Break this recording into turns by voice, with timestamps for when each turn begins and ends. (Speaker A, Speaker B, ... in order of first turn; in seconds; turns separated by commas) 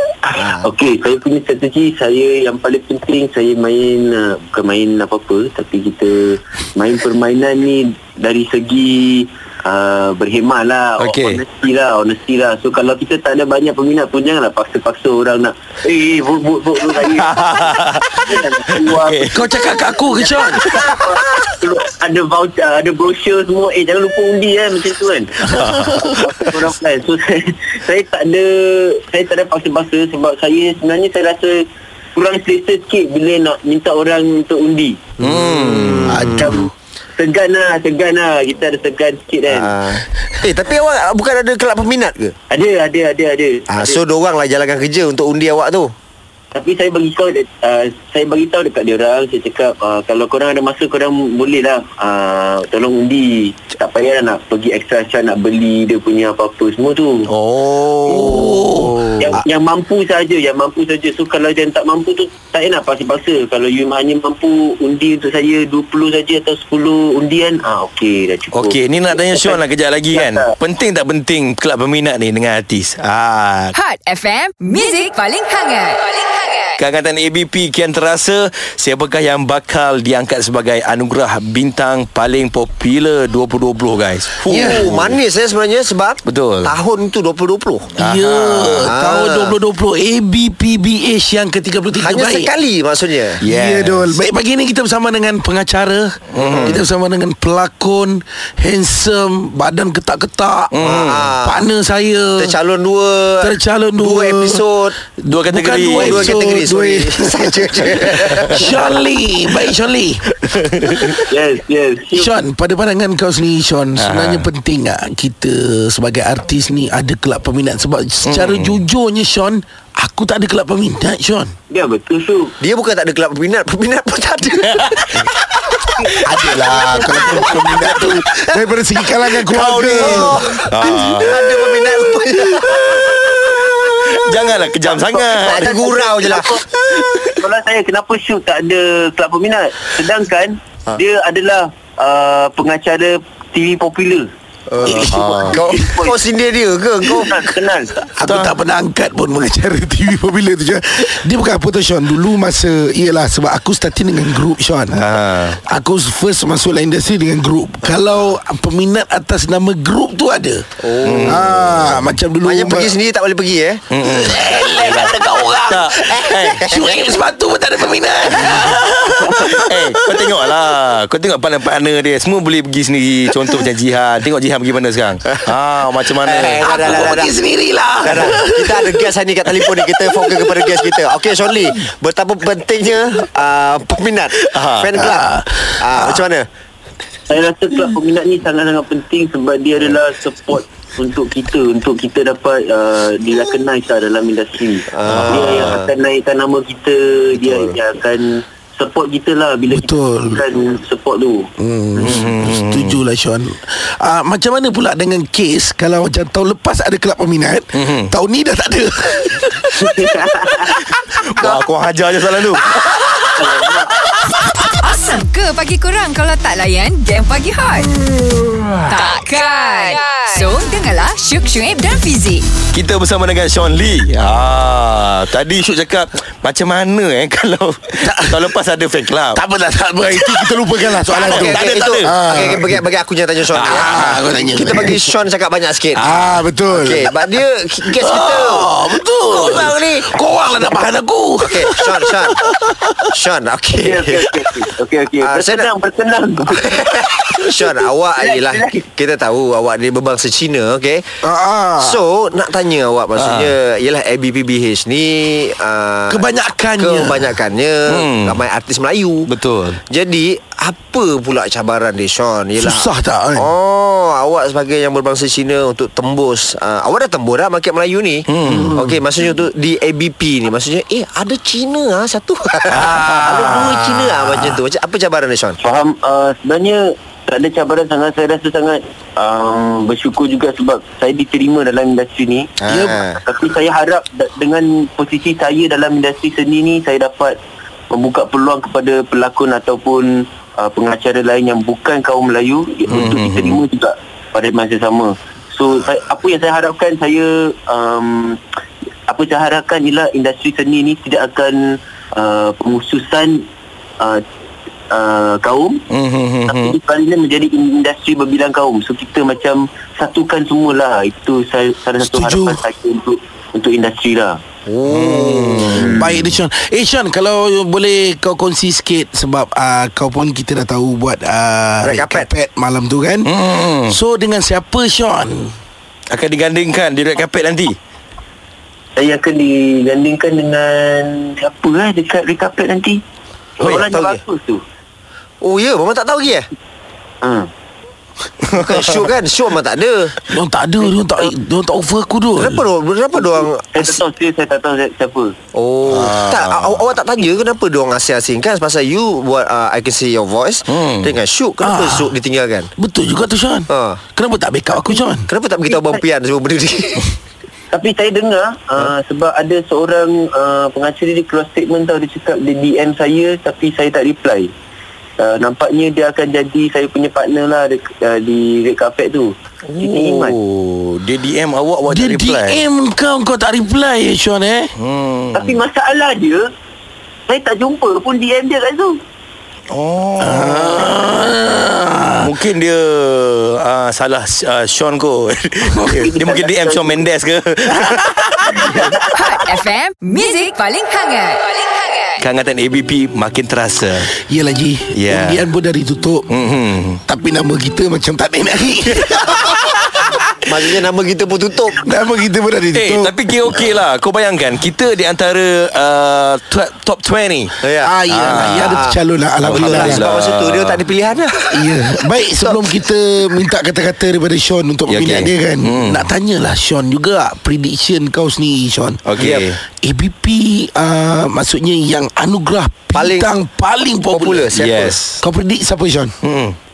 Speaker A: 0.2-31.6, Speaker B: 0.3-0.7, Speaker C: 11.0-11.4, Speaker C: 17.0-19.4, Speaker D: 19.3-20.6, Speaker C: 20.6-21.5, Speaker C: 25.5-26.6, Speaker A: 32.1-35.0, Speaker C: 35.2-36.2, Speaker B: 35.2-36.5, Speaker D: 36.1-36.7, Speaker A: 36.3-39.7, Speaker B: 39.5-42.3, Speaker A: 42.5-44.0, Speaker B: 43.7-45.9, Speaker A: 46.5-57.3, Speaker C: 57.3-58.6, Speaker D: 58.1-59.0, Speaker B: 58.3-59.4, Speaker A: 59.2-70.5, Speaker C: 68.5-73.7, Speaker E: 73.7-76.7, Speaker C: 76.8-85.2, Speaker B: 84.5-87.9, Speaker D: 84.5-84.9, Speaker C: 86.2-86.7, Speaker C: 88.0-88.9, Speaker D: 88.0-92.5, Speaker B: 88.8-89.5, Speaker B: 92.0-93.4, Speaker C: 93.4-94.2, Speaker D: 93.4-100.7, Speaker C: 96.3-96.8, Speaker B: 96.3-96.8, Speaker C: 100.7-101.3, Speaker B: 100.8-101.6, Speaker D: 101.4-102.5, Speaker B: 102.4-105.0, Speaker D: 103.4-104.6, Speaker D: 105.2-110.2, Speaker C: 105.2-106.4, Speaker B: 105.9-108.6, Speaker C: 108.2-108.6, Speaker C: 110.4-111.1, Speaker A: 111.0-112.3, Speaker D: 112.1-121.5, Speaker C: 114.0-114.5, Speaker C: 118.2-118.8, Speaker A: 121.7-122.5, Speaker B: 122.6-125.3, Speaker D: 126.2-131.1, Speaker C: 126.8-127.4, Speaker B: 126.9-128.1, Speaker B: 129.3-134.0, Speaker C: 130.7-131.6, Speaker C: 133.0-135.7, Speaker A: 134.8-144.3, Speaker B: 135.4-136.6, Speaker B: 144.7-147.4, Speaker D: 144.8-145.9, Speaker C: 145.1-145.6, Speaker A: 145.3-146.2, Speaker A: 147.0-148.1, Speaker D: 148.1-155.0, Speaker C: 148.2-148.5, Speaker C: 154.9-155.6, Speaker D: 155.7-160.7, Speaker B: 160.8-163.8, Speaker C: 161.0-161.8, Speaker D: 161.2-162.9, Speaker C: 163.9-166.7, Speaker D: 164.0-170.6, Speaker B: 166.5-167.0, Speaker C: 169.4-177.1, Speaker B: 176.2-177.3, Speaker D: 176.6-179.0, Speaker B: 178.0-185.3, Speaker D: 179.6-181.0, Speaker C: 184.4-185.0, Speaker D: 184.9-186.2, Speaker B: 185.8-186.5, Speaker A: 187.3-201.5, Speaker B: 194.9-195.9, Speaker C: 195.1-195.8, Speaker B: 197.3-197.8, Speaker D: 199.7-200.4, Speaker D: 201.6-210.0, Speaker C: 202.0-203.0, Speaker C: 207.7-208.1, Speaker A: 209.8-210.8, Speaker C: 211.2-212.7, Speaker D: 212.5-214.5, Speaker A: 212.9-213.9, Speaker E: 214.7-217.9, Speaker E: 218.8-222.4, Speaker C: 222.7-229.4, Speaker D: 228.0-228.5, Speaker D: 229.3-232.8, Speaker C: 230.1-232.2, Speaker B: 231.2-236.1, Speaker C: 233.5-234.2, Speaker D: 233.6-235.0, Speaker D: 235.9-237.2, Speaker B: 236.7-238.7, Speaker D: 237.9-243.1, Speaker B: 239.2-240.1, Speaker B: 241.4-242.4, Speaker B: 243.1-244.3, Speaker A: 243.8-248.8, Speaker B: 245.2-245.7, Speaker B: 246.6-251.0, Speaker D: 251.2-252.0, Speaker B: 251.8-256.2, Speaker C: 253.2-253.5, Speaker D: 256.1-257.3, Speaker B: 256.8-259.3, Speaker C: 257.9-258.4, Speaker C: 259.3-259.8, Speaker B: 259.9-275.6, Speaker D: 262.6-263.5, Speaker C: 268.3-268.8, Speaker D: 268.4-269.0, Speaker D: 272.7-274.2, Speaker C: 272.7-273.6, Speaker A: 275.6-282.5, Speaker B: 282.6-283.2, Speaker D: 282.7-283.0, Speaker A: 283.1-287.4, Speaker A: 287.9-298.4, Speaker C: 292.9-293.6, Speaker A: 299.1-303.4, Speaker A: 304.9-305.8, Speaker C: 305.9-306.7, Speaker A: 306.4-314.4, Speaker D: 312.0-312.6, Speaker B: 314.6-315.9, Speaker C: 314.9-315.9, Speaker A: 315.7-316.3, Speaker D: 315.9-325.5, Speaker B: 321.8-322.3, Speaker C: 323.2-324.0, Speaker C: 326.1-327.8, Speaker A: 328.9-333.0, Speaker A: 333.6-334.6, Speaker B: 333.6-334.2, Speaker B: 335.4-336.5, Speaker A: 337.2-337.5, Speaker B: 338.5-340.2, Speaker D: 340.3-342.6, Speaker A: 340.8-341.3, Speaker B: 342.4-344.0, Speaker A: 343.1-345.3, Speaker B: 345.5-352.7, Speaker C: 345.8-346.8, Speaker C: 350.7-351.1, Speaker D: 351.6-352.1, Speaker D: 352.8-355.3, Speaker B: 353.7-354.0, Speaker B: 355.3-357.1, Speaker A: 355.6-356.0, Speaker A: 357.7-364.5, Speaker A: 365.2-370.4, Speaker C: 369.7-372.6, Speaker D: 371.9-374.7, Speaker C: 374.8-375.6, Speaker A: 375.3-376.4, Speaker A: 377.3-379.0, Speaker C: 379.7-381.0, Speaker D: 380.2-382.3, Speaker C: 382.2-389.0, Speaker A: 385.8-387.0, Speaker A: 388.5-389.1, Speaker E: 389.1-392.2, Speaker C: 392.2-394.1, Speaker D: 394.2-396.3, Speaker C: 394.9-395.4, Speaker C: 396.3-397.0, Speaker D: 397.1-400.2, Speaker B: 400.4-401.8, Speaker D: 401.8-403.7, Speaker C: 402.7-407.6, Speaker B: 407.6-411.4, Speaker D: 407.8-410.1, Speaker C: 408.1-408.9, Speaker C: 409.4-410.8, Speaker D: 411.5-419.0, Speaker B: 412.4-412.7, Speaker C: 414.9-416.1, Speaker C: 419.0-419.6, Speaker B: 419.2-419.5, Speaker D: 419.8-424.5, Speaker B: 422.9-423.3, Speaker B: 424.1-425.0, Speaker C: 424.5-425.2, Speaker D: 425.2-426.1, Speaker C: 426.2-426.6